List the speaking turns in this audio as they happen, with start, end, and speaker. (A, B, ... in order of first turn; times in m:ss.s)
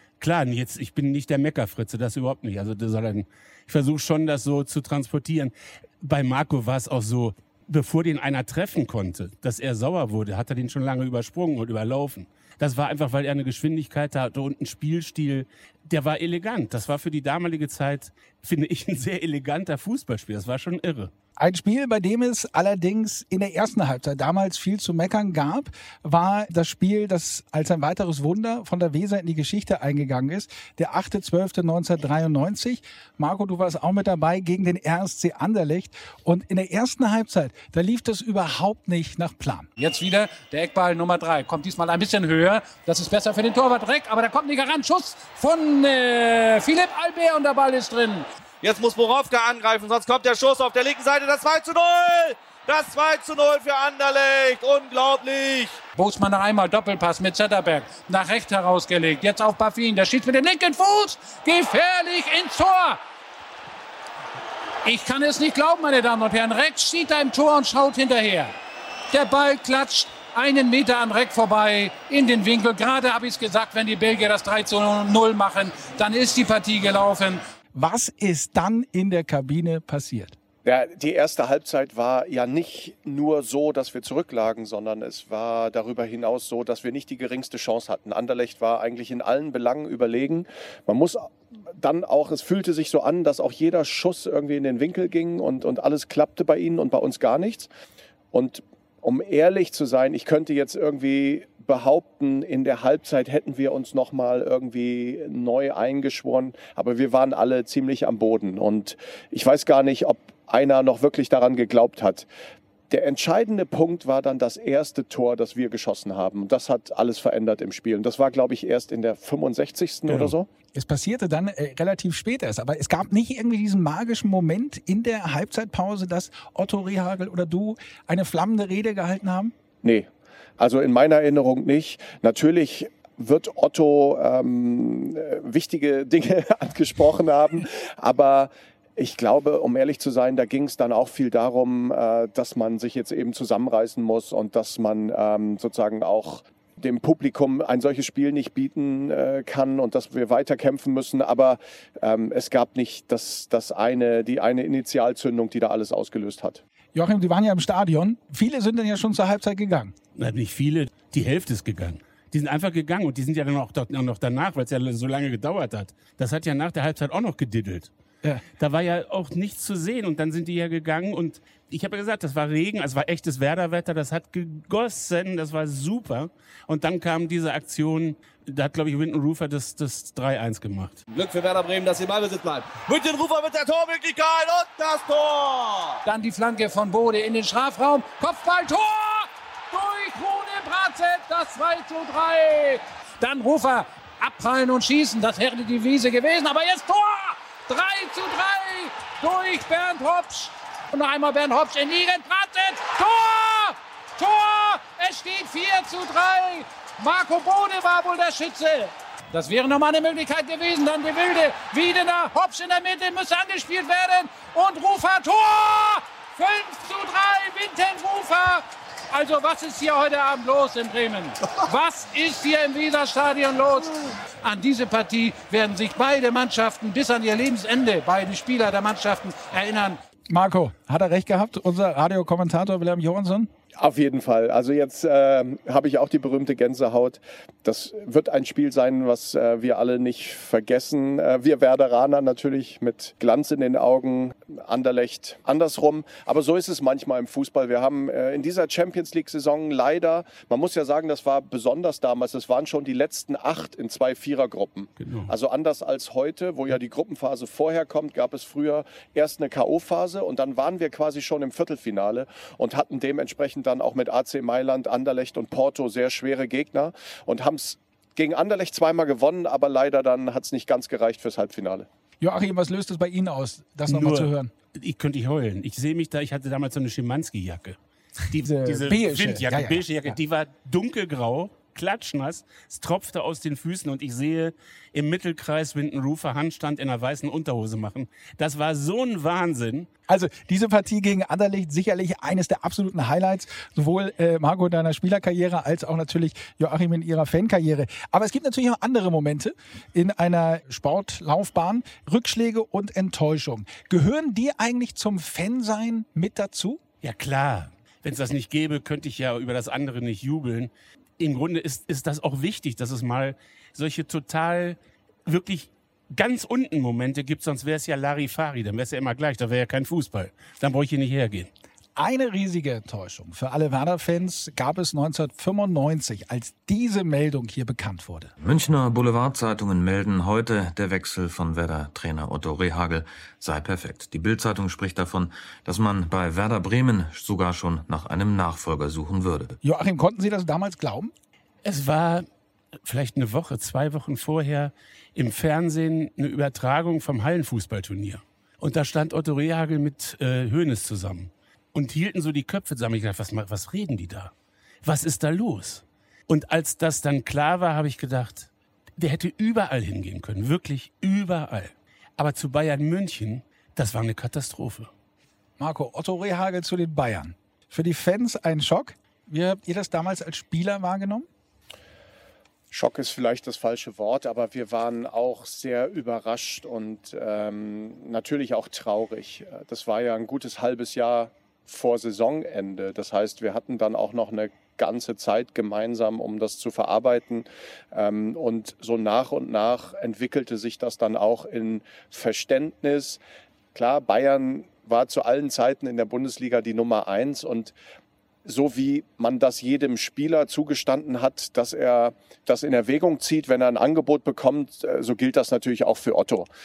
0:00.2-0:21.1 A
0:21.4-0:39.7 B
0:39.8-0:48.3 C
0:48.6-0:55.8 D
0:56.0-1:03.0 C
1:04.8-1:08.5 C
1:09.1-1:17.4 C
1:17.7-1:20.4 B
1:20.6-1:37.7 E
1:38.3-1:52.3 E
1:52.9-2:00.5 E
2:00.1-2:00.3 A
2:00.7-2:09.5 B
2:09.8-2:10.1 E
2:10.6-2:36.6 E
2:36.9-2:39.9 B
2:40.2-2:47.9 A
2:48.6-3:01.0 A
3:01.1-3:06.0 D
3:06.0-3:50.0 C
3:50.3-3:53.5 B
3:53.8-4:31.9 E
4:15.0-4:15.3 A
4:32.2-4:34.5 B
4:33.9-4:37.8 A
4:38.3-4:49.9 A
4:38.3-4:40.2 B
4:50.1-5:06.8 B
5:07.0-5:21.5 A
5:22.0-5:28.3 B
5:28.4-5:39.6 F
5:39.6-5:41.1 B
5:41.6-5:42.2 A
5:42.8-5:54.3 A
5:54.8-6:04.9 A
6:05.6-6:11.3 B
6:12.7-6:33.2 E
6:33.7-6:37.7 E
6:38.4-6:46.5 E